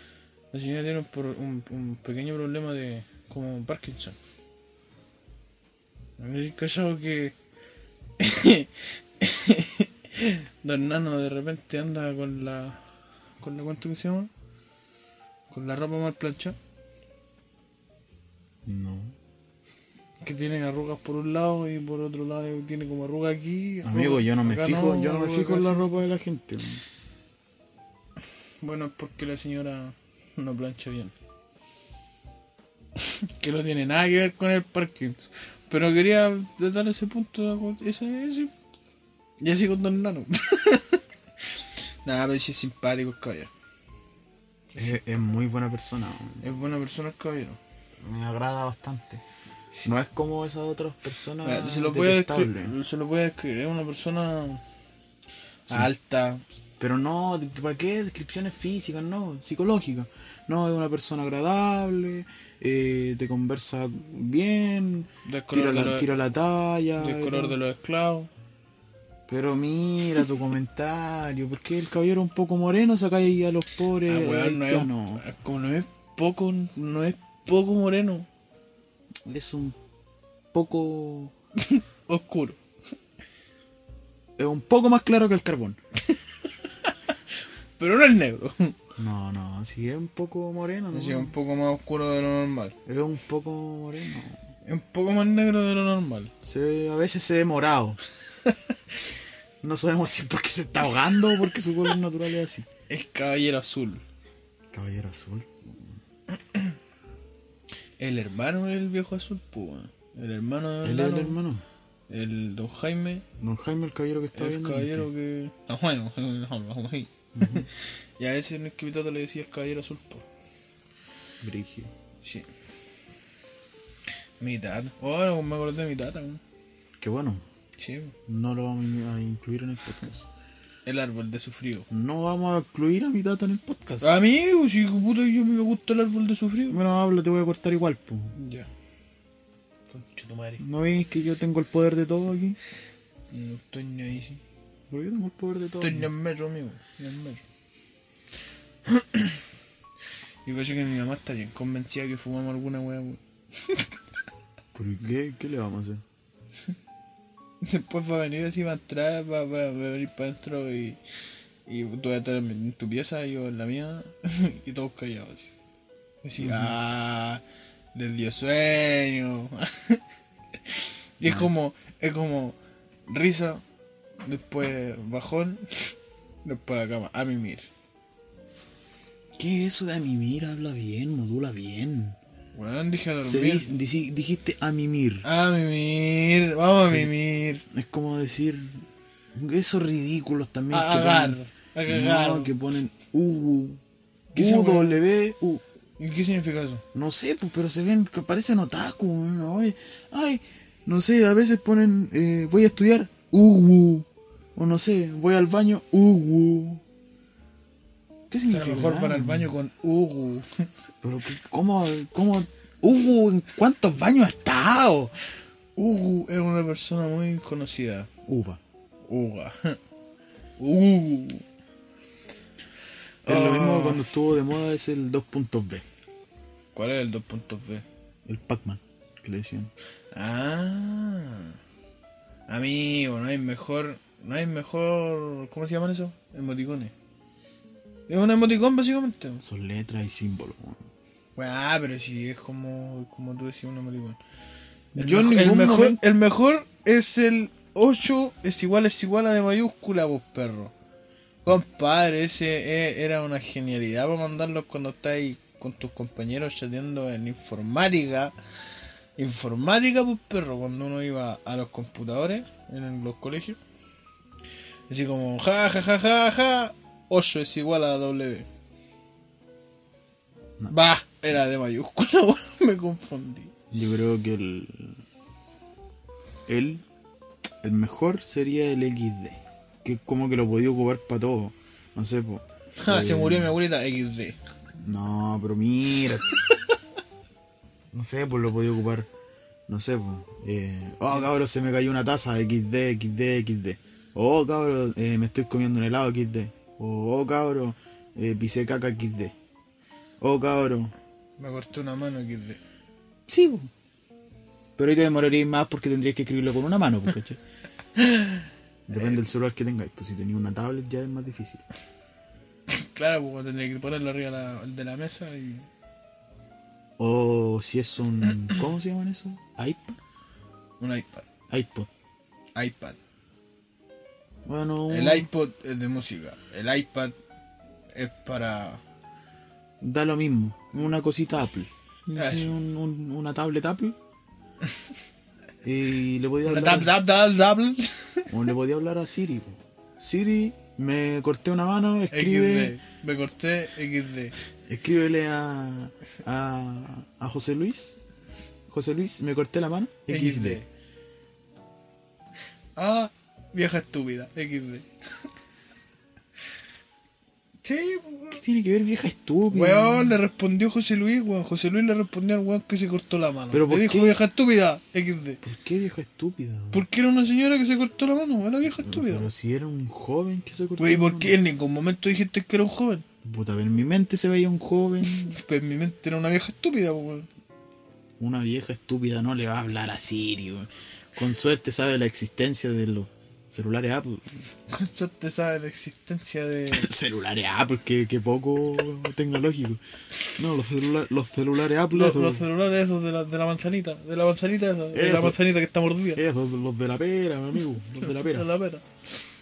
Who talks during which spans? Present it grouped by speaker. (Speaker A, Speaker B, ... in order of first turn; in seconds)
Speaker A: 0.5-4.2, 6.2-7.3, 8.2-12.8, 13.4-14.3, 15.5-16.6, 20.2-25.9, 28.6-31.1, 33.0-38.5, 39.4-43.5, 44.7-45.0, 46.4-47.6, 51.4-54.6, 55.7-56.4, 65.2-66.1, 67.0-68.3, 74.0-78.3, 81.6-82.6, 86.1-88.8, 90.9-92.8, 94.6-96.3, 98.4-99.0, 101.4-101.7, 102.9-104.0, 108.0-111.4, 112.1-113.2, 114.3-120.2, 124.4-126.4, 127.8-128.1, 130.8-131.9, 134.0-136.8, 138.3-138.7, 139.9-140.6, 143.3-144.4, 145.8-147.4, 148.9-149.4, 150.4-153.9, 157.6-161.0, 161.7-165.6, 166.2-167.4, 167.9-170.0, 170.6-173.6, 174.2-175.9, 176.4-177.7, 182.5-183.7, 185.2-187.6, 190.7-192.5, 194.3-195.0, 196.0-196.8, 208.5-210.7, 215.8-218.1, 219.0-219.8, 220.6-221.4, 223.2-224.1, 226.7-227.8, 230.1-231.6, 232.5-236.9, 238.1-239.4, 241.3-244.2, 244.9-250.7, 251.4-258.3, 259.2-263.6, 264.9-268.5, 270.7-273.5, 282.8-284.4, 301.4-302.6, 307.9-308.5, 312.7-315.7, 320.8-321.3, 322.5-323.0, 324.9-327.1, 327.9-328.8, 332.1-332.5, 334.6-334.9, 336.4-338.3, 342.1-344.3, 350.1-350.6, 352.8-355.3, 357.6-358.4, 359.5-365.4, 366.7-369.3, 370.8-373.0, 375.0-377.3, 384.7-386.9, 391.9-396.2, 398.0-398.8
Speaker B: 18.6-19.1, 23.8-26.8, 44.8-46.4, 48.0-49.2, 49.8-52.7, 56.8-67.6, 69.3-75.2, 79.2-79.8, 80.5-81.3, 84.4-85.8, 89.0-91.3, 92.8-94.4, 96.4-98.0, 99.6-102.7, 104.7-106.0, 110.8-111.6, 113.4-115.1, 117.3-117.7, 121.4-121.9, 127.0-127.4, 128.3-130.3, 131.9-134.1, 136.7-138.3, 140.6-142.6, 144.9-146.1, 154.7-156.0, 166.4-166.8, 171.2-171.5, 179.3-182.2, 183.2-185.2, 186.8-187.1, 187.7-188.8, 189.3-193.8, 194.3-195.6, 196.9-206.8, 208.3-209.5, 211.0-215.1, 218.2-218.6, 223.2-225.8, 228.2-229.7, 239.4-240.9, 244.9-246.0, 273.7-275.0, 276.5-276.8, 277.6-283.5, 284.8-286.3, 287.9-289.1, 289.7-299.3, 300.2-300.9, 303.3-303.7, 304.8-307.4, 308.9-311.6, 317.0-320.0, 321.5-321.9, 324.4-325.3, 329.8-334.0, 335.6-336.9, 338.3-342.8, 344.6-348.0, 348.7-350.6, 358.3-360.2, 363.5-364.2, 365.4-366.8, 368.7-371.4, 373.2-375.4, 378.2-384.4, 386.7-389.8, 390.4-392.4, 394.9-395.4, 396.1-398.5